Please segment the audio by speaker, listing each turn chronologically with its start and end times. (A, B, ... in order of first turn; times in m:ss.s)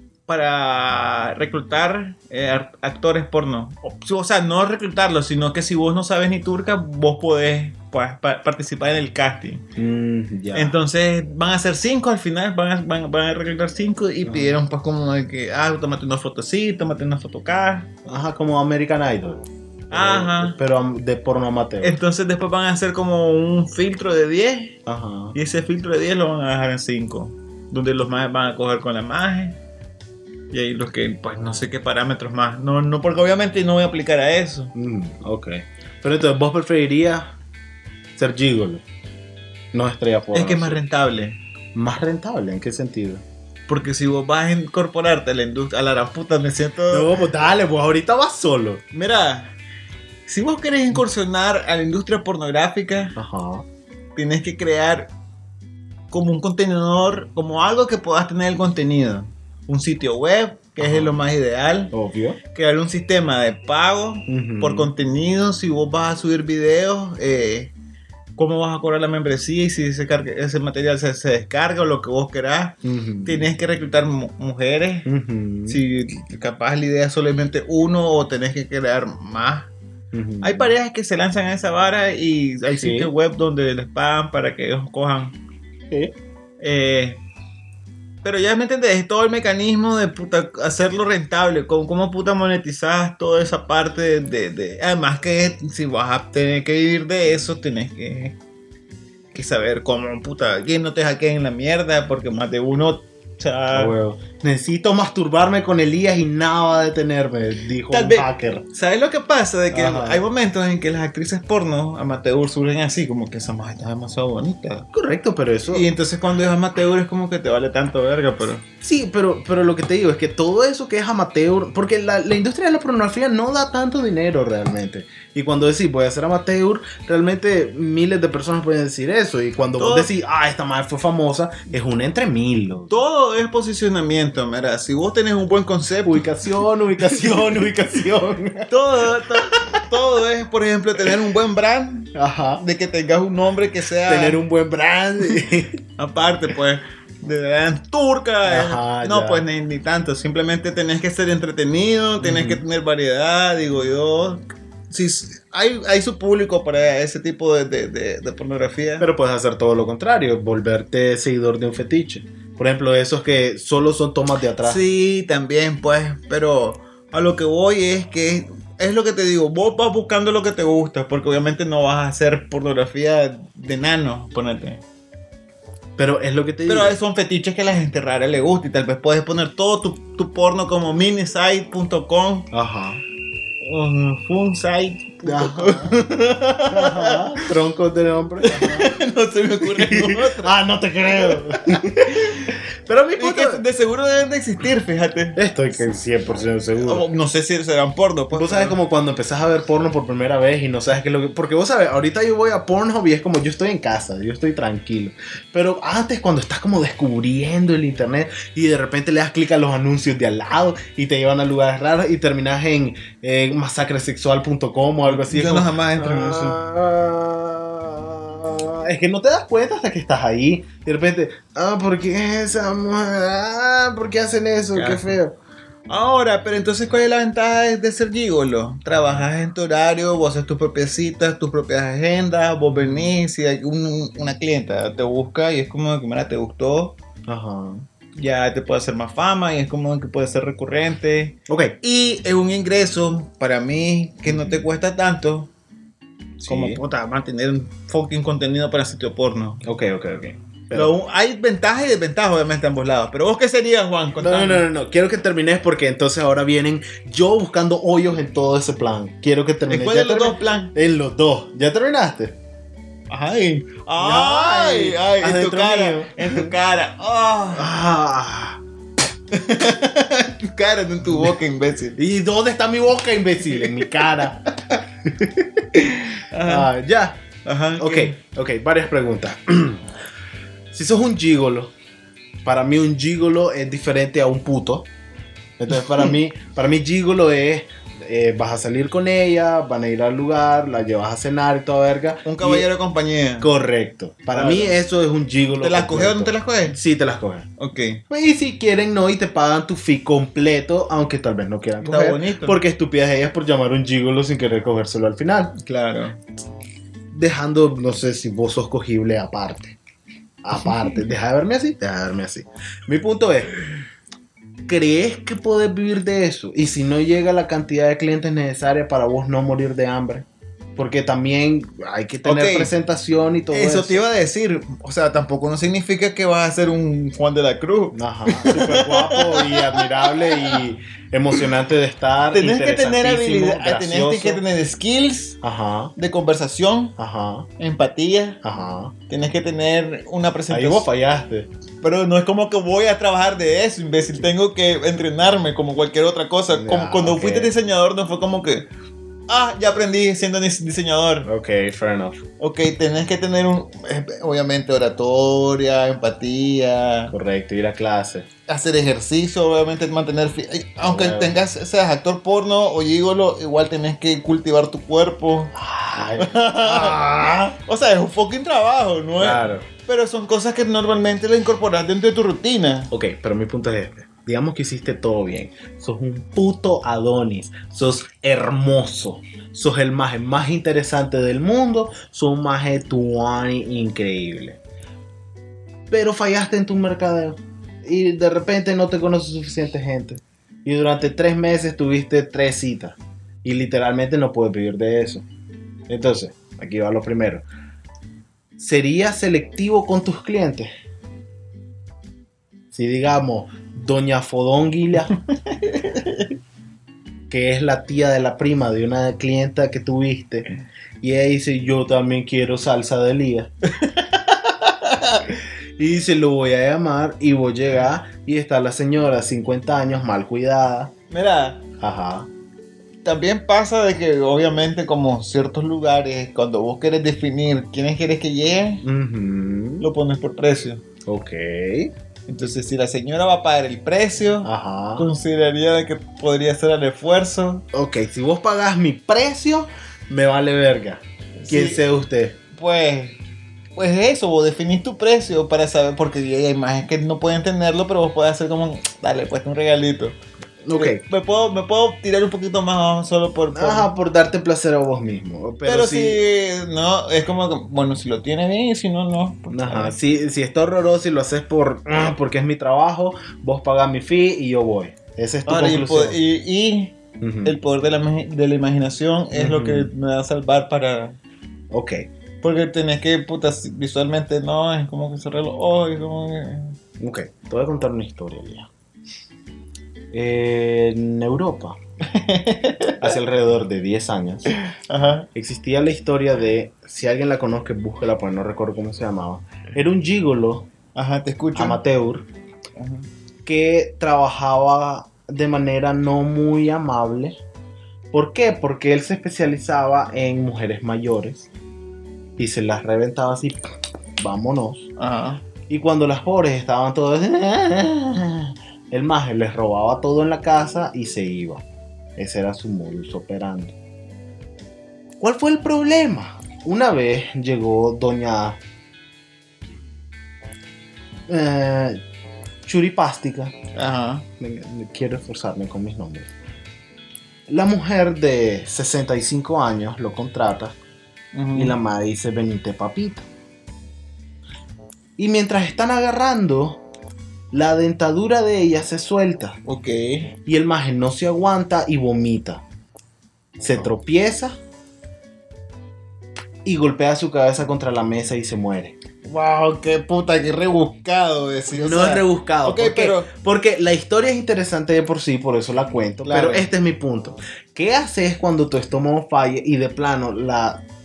0:00.3-0:09.6 A
0:09.8-0:10.8 B
0:10.6-0:17.9 A
0:14.2-0:14.6 B
0:18.1-0:22.0 B
0:19.9-0:20.6 A
0:21.8-0:24.8 A
0:24.9-0:25.4 B
0:25.4-0:29.6 A
0:30.5-0:34.7 A
0:34.8-0:37.3 B
0:38.2-0:38.8 B
0:39.7-0:40.8 B
0:40.3-0:41.4 A
0:41.8-0:43.2 B
0:43.7-0:47.2 A
0:46.9-0:48.8 B
0:48.9-0:49.5 A
0:50.3-0:53.2 A
0:53.2-0:53.7 B
0:54.2-0:55.1 A
0:56.1-1:01.9 A
1:00.8-1:01.1 B
1:01.9-1:02.4 B
1:02.5-1:07.7 A
1:04.3-1:04.9 B
1:08.4-1:15.1 A
1:12.8-1:13.5 B
1:15.1-1:15.8 B
1:15.7-1:19.7 A
1:20.1-1:20.7 B
1:20.4-1:25.4 A
1:22.7-1:23.1 B
1:26.6-1:27.2 A
1:28.2-1:38.4 A
1:39.3-1:43.9 A
1:43.7-1:48.7 B
1:47.9-1:54.9 A
1:49.7-1:50.2 B
1:54.9-1:55.8 B
1:55.7-1:58.6 A
1:58.8-2:13.0 B
2:09.8-2:10.1 A
2:12.9-2:16.3 A
2:16.1-2:18.7 B
2:17.1-2:17.4 A
2:18.7-2:24.4 A
2:22.2-2:22.6 B
2:24.0-2:25.8 B
2:26.0-2:39.1 A
2:28.4-2:29.4 B
2:32.2-2:32.6 B
2:39.0-2:44.8 B
2:44.6-2:54.8 A
2:56.0-2:57.0 B
2:56.7-3:02.5 A
3:02.5-3:03.0 B
3:03.6-3:07.6 A
3:05.2-3:06.0 B
3:06.7-3:08.9 B
3:08.4-3:10.5 A
3:09.6-3:13.6 B
3:11.1-3:12.6 A
3:13.2-3:15.4 A
3:15.4-3:17.0 B
3:16.8-3:18.8 A
3:18.3-3:45.4 B
3:35.0-3:36.6 A
3:44.7-3:45.2 A
3:45.9-3:57.0 A
3:52.7-3:53.0 B
3:57.3-3:57.9 B
3:58.2-4:05.5 A
4:01.5-4:01.8 B
4:04.3-4:04.6 B
4:06.4-4:06.8 B
4:06.5-4:09.6 A
4:09.6-4:10.9 B
4:10.7-4:14.7 A
4:14.2-4:22.4 B
4:19.7-4:20.7 A
4:23.1-4:27.7 A
4:24.0-4:26.5 B
4:27.5-4:28.6 B
4:29.3-4:32.0 A
4:32.0-4:34.5 B
4:33.5-4:34.3 A
4:35.0-4:35.7 B
4:35.7-4:36.7 A
4:36.4-4:37.2 B
4:37.4-4:38.2 A
4:37.8-4:39.8 B
4:40.7-4:41.7 B
4:42.4-4:44.9 B
4:45.6-4:52.7 B
4:45.7-4:46.1 A
4:52.2-4:53.5 A
4:53.4-4:57.5 B
4:54.3-4:54.8 A
4:55.6-4:56.8 A
4:57.6-4:58.0 A
4:58.1-5:05.6 B
5:01.8-5:02.6 A
5:05.6-5:06.2 A
5:07.1-5:09.8 B
5:10.4-5:13.6 B
5:14.7-5:20.3 B
5:20.8-5:24.0 B
5:22.2-5:22.7 A
5:23.5-5:30.6 A
5:27.9-5:34.4 B
5:32.3-5:35.4 A
5:35.4-5:35.9 B
5:36.0-5:37.0 A
5:37.0-5:37.5 B
5:37.6-5:38.4 A
5:38.4-5:39.0 B
5:39.1-5:40.9 A
5:40.5-5:41.5 B
5:41.8-5:48.7 A
5:46.5-5:47.5 B
5:49.3-5:51.3 A
5:51.2-5:52.2 B
5:52.4-5:57.1 A
5:57.1-5:58.3 B
5:58.5-6:05.5 A
6:00.8-6:01.4 B
6:05.6-6:07.6 B
6:06.2-6:12.9 A
6:09.2-6:09.7 B
6:12.9-6:24.6 B
6:25.9-6:35.3 B
6:35.9-6:37.4 B
6:38.6-6:40.7 B
6:42.7-6:45.2 B
6:45.5-6:46.3 A
6:47.3-6:50.5 B
6:51.0-6:53.5 B
6:53.7-6:55.3 A
6:55.8-7:00.9 B
7:01.1-7:01.6 A
7:01.8-7:02.3 B
7:03.0-7:08.8 A
7:08.8-7:09.9 B
7:09.8-7:10.8 A
7:11.1-7:11.9 B
7:12.3-7:17.6 A
7:14.4-7:15.1 B
7:17.7-7:22.4 B
7:21.4-7:21.8 A
7:22.5-7:23.2 A
7:23.8-7:30.2 A
7:30.6-7:31.0 B
7:30.8-7:33.9 A
7:33.6-7:36.2 B
7:35.6-7:40.0 A
7:39.5-7:46.2 B
7:45.5-7:51.2 A
7:47.2-7:47.6 B
7:49.3-7:49.9 B
7:51.7-7:52.0 B
7:52.4-7:56.8 A
7:57.0-7:58.7 B
8:00.1-8:01.8 B
8:02.0-8:03.2 A
8:03.0-8:04.5 B
8:04.5-8:05.3 A
8:05.4-8:10.7 B
8:11.0-8:11.8 A
8:11.6-8:12.3 B
8:12.8-8:13.1 A
8:13.5-8:17.4 B
8:18.1-8:21.5 B
8:22.4-8:23.6 B
8:24.2-8:24.8 B
8:25.0-8:25.4 A
8:25.7-8:31.6 B
8:32.2-8:33.8 B
8:35.2-8:38.6 B
8:41.3-8:42.0 B
8:42.6-8:43.6 B
8:43.8-8:44.3 A
8:44.4-8:46.3 B
8:47.5-8:50.8 B
8:51.3-8:51.8 A
8:51.5-8:53.3 B
8:55.2-8:56.8 B
8:57.5-8:59.6 B
8:59.7-9:00.3 A
9:00.5-9:02.6 B
9:03.6-9:04.6 B
9:06.6-9:09.0 B
9:09.2-9:13.3 A
9:11.7-9:20.8 B
9:16.2-9:16.7 A